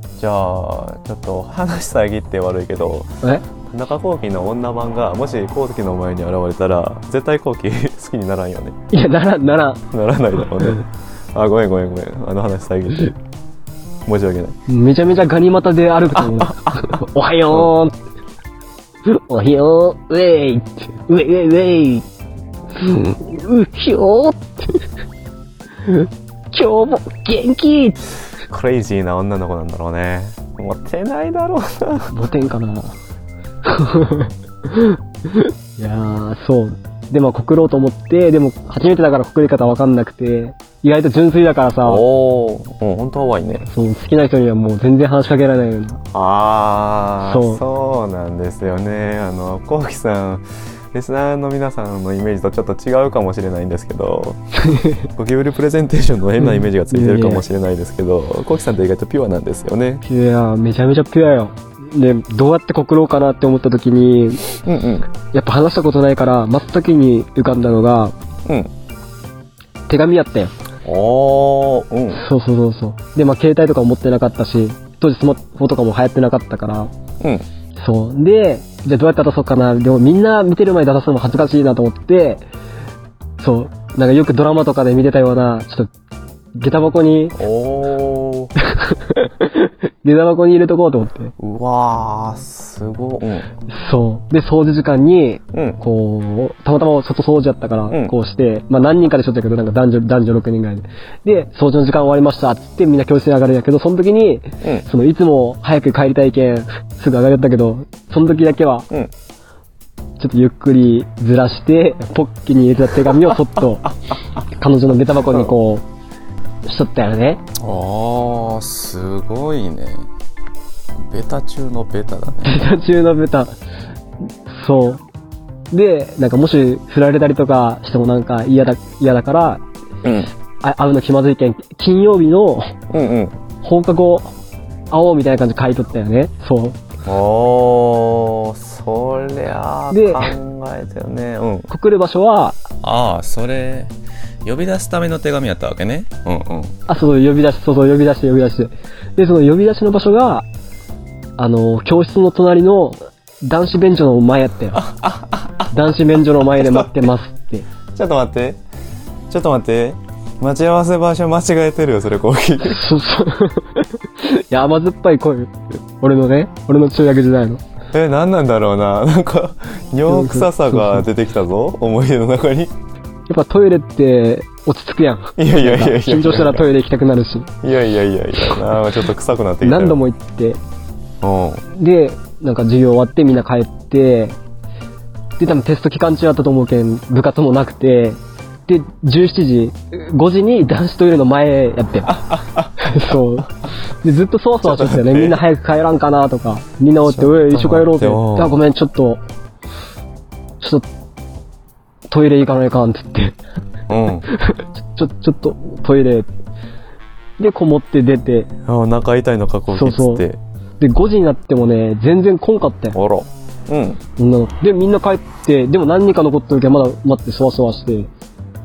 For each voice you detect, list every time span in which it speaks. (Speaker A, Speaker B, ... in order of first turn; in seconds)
Speaker A: 0.2-8.8, 9.9-13.1, 14.1-14.6, 16.1-17.7, 28.5-32.1, 41.8-43.7, 46.1-54.4, 55.1-60.0, 64.6-65.1, 68.5-68.7, 70.8-72.2, 77.2-77.5, 87.3-88.5, 91.4-93.5, 95.5-95.8, 97.9-98.1, 113.3-114.2, 117.6-120.1, 121.1-122.6, 130.0-130.3, 132.9-133.4, 137.0-141.7, 142.8-143.9, 144.4-146.8, 154.8-155.7, 156.6-157.1, 157.9-158.6, 159.3-162.8, 167.9-172.7, 175.4-176.7, 177.6-180.0, 181.2-181.6, 192.2-192.7, 194.6-195.4, 197.0-198.6, 203.9-204.3, 208.7-210.4, 212.9-214.0
Speaker B: 8.9-9.8, 14.7-17.9, 19.1-22.1, 22.7-24.8, 25.8-28.0, 32.1-33.0, 33.6-42.0, 43.7-46.0, 47.2-47.6, 54.6-55.1, 56.4-57.4, 60.0-64.5, 65.3-68.1, 69.9-70.5, 72.1-76.9, 77.8-82.4, 83.4-85.9, 86.5-87.4, 88.6-91.3, 93.7-108.9, 110.2-113.9, 114.5-115.8, 116.6-117.4, 122.4-123.6, 124.5-125.0, 125.7-129.6, 130.6-132.7, 133.6-134.3, 134.9-136.8, 139.9-140.3, 141.7-142.6, 146.9-150.4, 151.4-154.8, 155.7-157.7, 162.6-167.6, 170.1-171.0, 173.3-177.5, 179.6-180.6, 181.7-184.4, 185.4-199.2, 202.1-203.4, 204.2-206.3, 207.4-208.5, 209.7-210.2, 210.8-213.0, 214.2-218.1